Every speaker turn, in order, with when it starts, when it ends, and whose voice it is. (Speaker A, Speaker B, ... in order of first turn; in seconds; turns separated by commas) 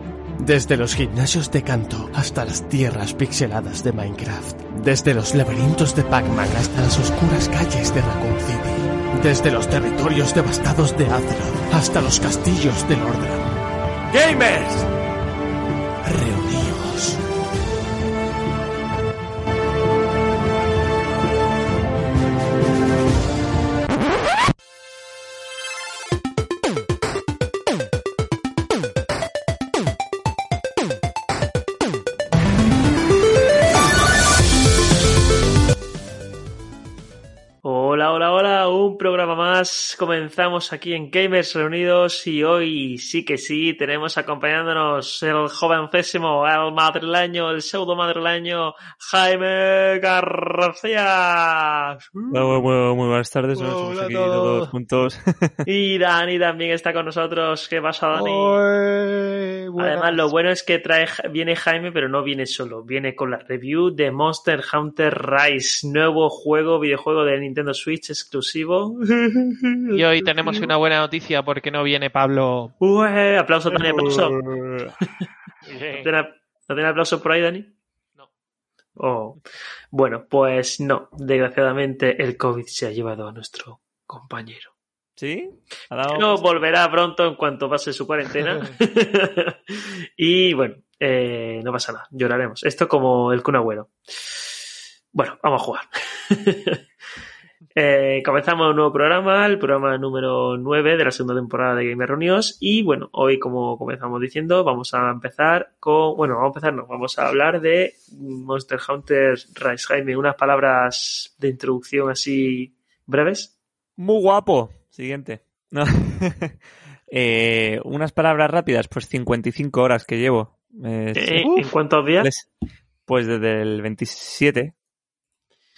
Speaker A: 0.4-13.5, Speaker A: 14.1-14.9, Speaker A: 16.0-17.2, Speaker B: 37.6-52.6, Speaker C: 52.3-55.7, Speaker B: 53.6-54.7, Speaker B: 55.6-58.6, Speaker D: 58.2-60.2, Speaker B: 59.8-70.7, Speaker D: 69.9-72.7, Speaker B: 72.8-74.4, Speaker C: 74.0-74.9, Speaker D: 75.6-76.1, Speaker B: 75.9-77.7, Speaker B: 79.0-79.4, Speaker B: 79.9-84.7, Speaker C: 85.2-86.4, Speaker B: 86.1-94.3, Speaker B: 95.1-96.8, Speaker B: 97.7-113.5, Speaker C: 114.0-116.6, Speaker C: 117.1-122.5, Speaker B: 121.1-122.3, Speaker C: 123.1-124.7